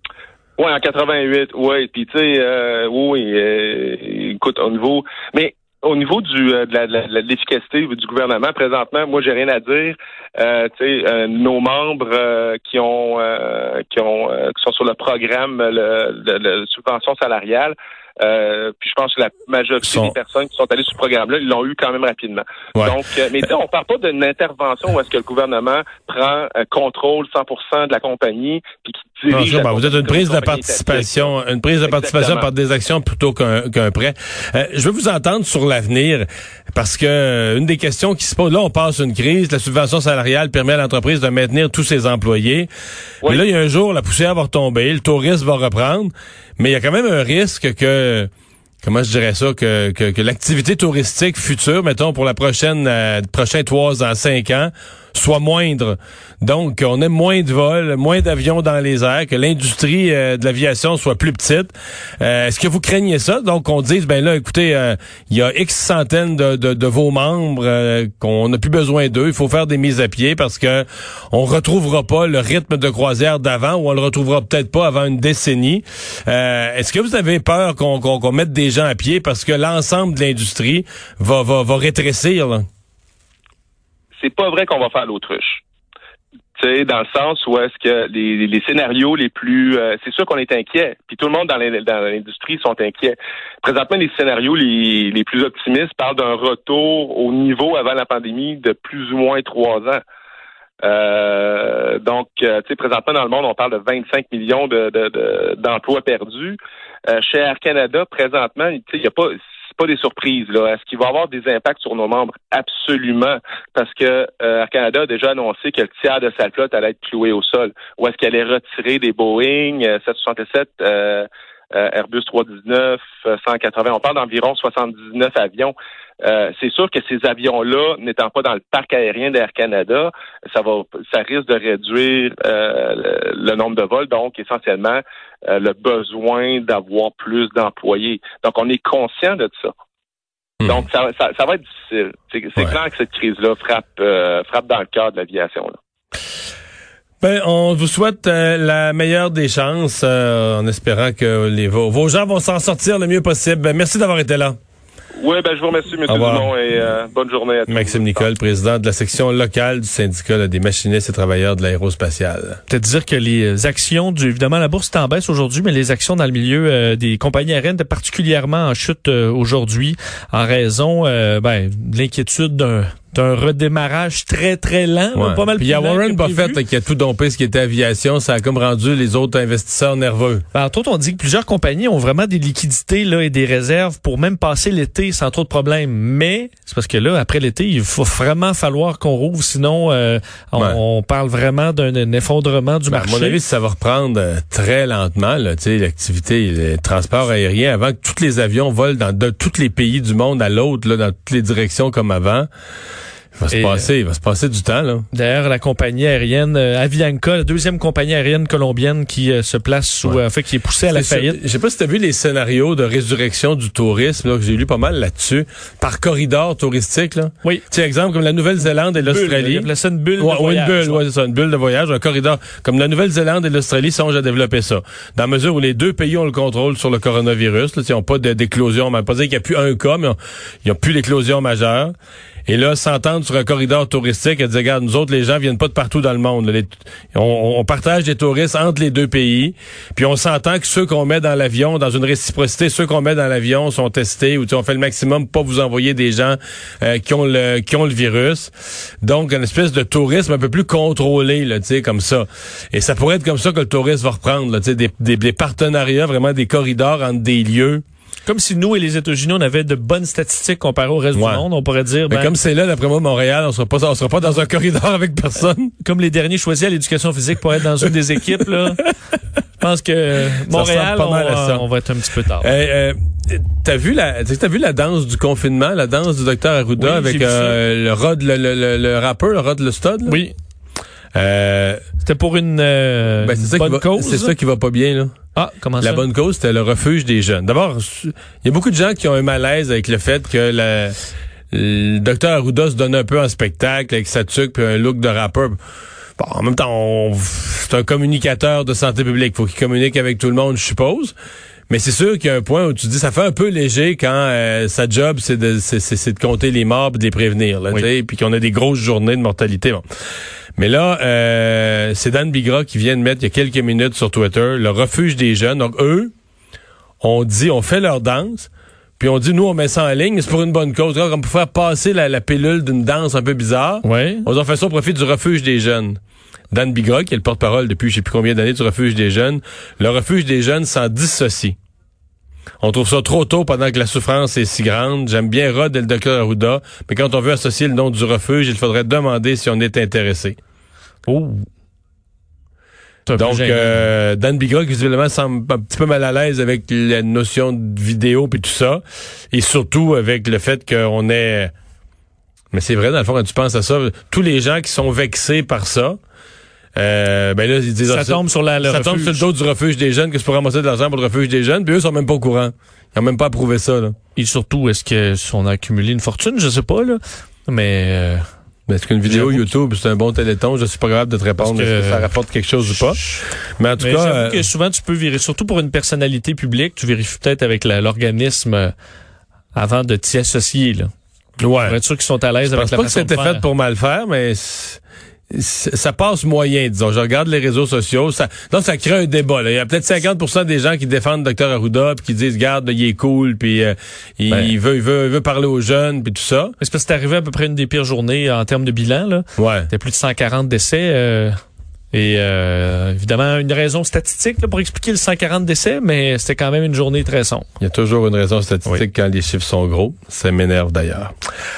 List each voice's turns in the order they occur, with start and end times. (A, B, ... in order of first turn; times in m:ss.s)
0:00.6-0:31.3 A
0:19.8-0:20.2 B
0:29.3-0:42.7 B
0:31.8-0:32.5 A
0:43.2-0:48.3 B
0:48.8-1:22.6 B
1:24.2-1:25.6 A
1:26.6-1:40.0 A
1:40.8-1:46.6 A
1:47.1-2:19.7 A
2:20.6-2:25.8 A
2:27.2-2:34.6 B
2:35.2-2:38.3 A
2:36.1-2:36.5 B
2:37.7-2:42.6 B
2:42.7-2:56.6 C
2:55.2-3:00.4 B
3:00.5-3:13.4 C
3:12.9-3:22.5 B
3:23.3-3:25.1 B
3:23.5-3:23.8 C
3:25.1-3:31.4 C
3:30.9-3:39.7 B
3:39.0-3:41.0 C
3:40.2-3:51.9 B
3:52.5-4:08.5 B
4:09.0-4:17.8 B
4:18.3-4:22.3 C
4:21.2-4:21.4 B
4:22.1-4:25.7 B
4:25.8-4:29.0 C
4:29.6-4:32.5 C
4:30.5-4:31.6 B
4:32.4-4:40.2 B
4:36.8-4:37.6 C
4:40.1-4:40.3 C
4:41.2-4:41.8 B
4:42.0-4:44.3 C
4:43.2-4:45.1 B
4:45.4-4:46.0 C
4:45.8-4:51.0 B
4:51.5-4:55.6 B
4:56.2-5:01.2 B
5:01.7-5:09.8 B
5:10.6-5:16.1 B
5:17.0-5:26.0 B
5:23.8-5:24.3 C
5:26.5-5:31.6 B
5:32.6-5:40.4 B
5:41.1-5:41.4 C
5:43.1-5:43.8 C
5:43.2-5:51.5 B
5:52.5-5:56.0 B
5:56.8-6:03.9 B
5:57.9-5:59.2 C
6:04.2-6:08.2 C
6:08.7-6:13.0 B
6:09.1-6:09.5 C
6:11.4-6:12.1 C
6:12.8-6:13.2 C
6:13.6-6:14.4 B
6:13.8-6:18.7 C
6:19.5-6:20.9 C
6:21.4-6:21.8 B
6:21.6-6:23.4 C
6:22.5-6:36.6 B
6:36.6-6:41.4 C
6:39.4-6:39.7 B
6:41.9-6:47.5 C
6:47.6-6:51.1 B